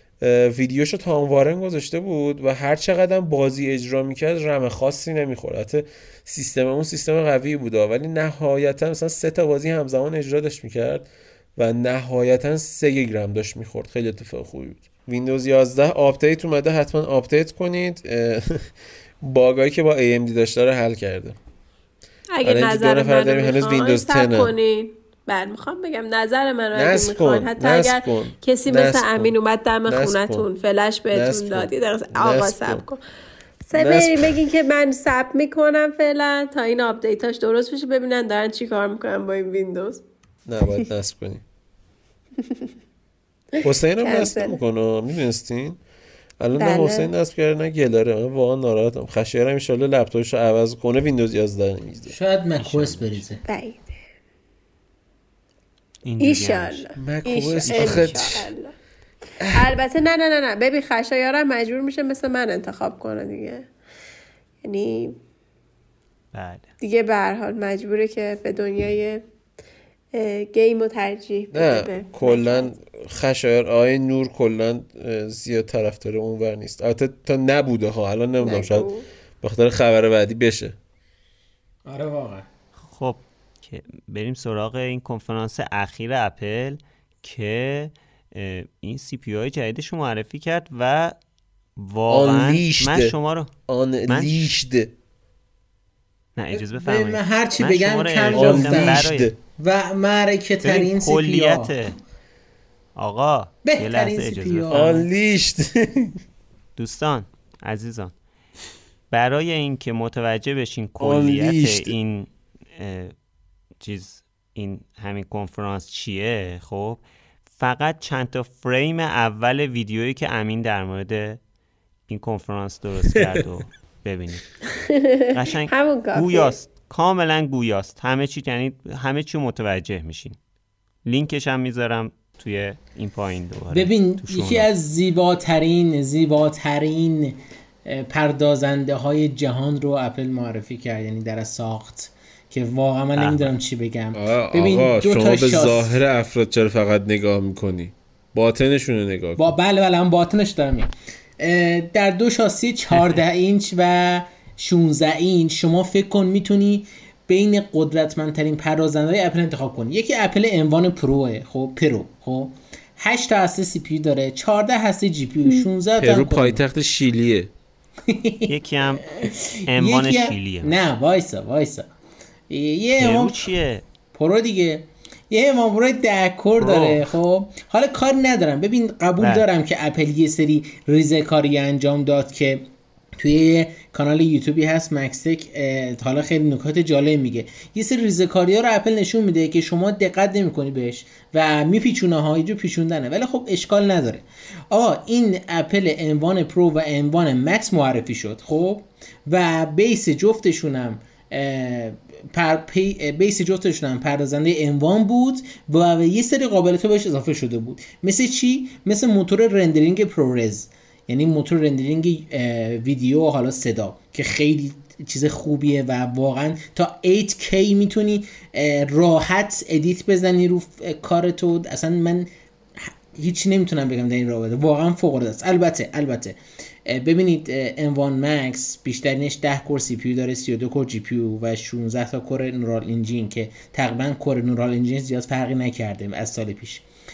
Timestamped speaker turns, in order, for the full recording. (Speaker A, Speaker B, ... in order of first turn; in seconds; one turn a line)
Speaker A: 0.2-18.7
Speaker A: 19.2-21.4
Speaker B: 22.4-33.0
Speaker A: 22.4-24.6
Speaker A: 26.7-29.3
Speaker A: 29.9-30.5
Speaker A: 31.1-32.9
Speaker B: 33.7-40.0
Speaker A: 33.8-34.4
Speaker A: 40.5-41.4
Speaker B: 42.4-42.7
Speaker A: 43.6-45.8
Speaker B: 44.0-44.6
Speaker A: 46.4-53.0
Speaker B: 46.6-47.1
Speaker C: 52.1-53.4
Speaker B: 53.5-53.9
Speaker D: 56.0-56.9
Speaker B: 56.2-58.7
Speaker A: 57.0-58.5
Speaker D: 57.7-58.2
Speaker A: 59.4-59.7
Speaker B: 59.5-63.7
Speaker B: 64.6-65.2
Speaker D: 66.3-66.7
Speaker B: 66.8-69.2
Speaker B: 70.1-72.7
Speaker A: 71.5-78.9
Speaker B: 78.4-79.0
Speaker A: 79.4-80.8
Speaker C: 81.9-82.5
Speaker D: 82.8-91.2
Speaker D: 91.8-93.5
Speaker A: 92.1-93.2
Speaker A: 93.7-94.9
Speaker D: 94.1-94.3
Speaker D: 96.4-99.3
Speaker C: 96.5-101.7
Speaker A: 98.3-99.3
Speaker D: 100.6-102.0
Speaker D: 103.0-105.1
Speaker C: 103.6-105.0
Speaker A: 104.7-106.2
Speaker D: 106.8-108.1
Speaker D: 109.1-113.2
Speaker A: 111.0-111.9
Speaker D: 113.8-121.4
Speaker D: 122.1-124.5
Speaker B: 124.7-126.5
Speaker D: 125.3-130.4
Speaker D: 131.1-134.7
Speaker C: 133.7-146.0
Speaker D: 143.2-143.5
Speaker A: 144.1-149.5
Speaker C: 149.4-166.6
Speaker A: 166.0-167.5
Speaker C: 168.1-168.5
Speaker D: 168.5-169.1
Speaker C: 169.1-171.9
Speaker D: 169.7-170.8
Speaker C: 172.5-173.5
Speaker D: 173.0-173.8
Speaker C: 174.1-182.7
Speaker D: 176.6-177.1
Speaker D: 179.2-179.4
Speaker C: 183.2-236.8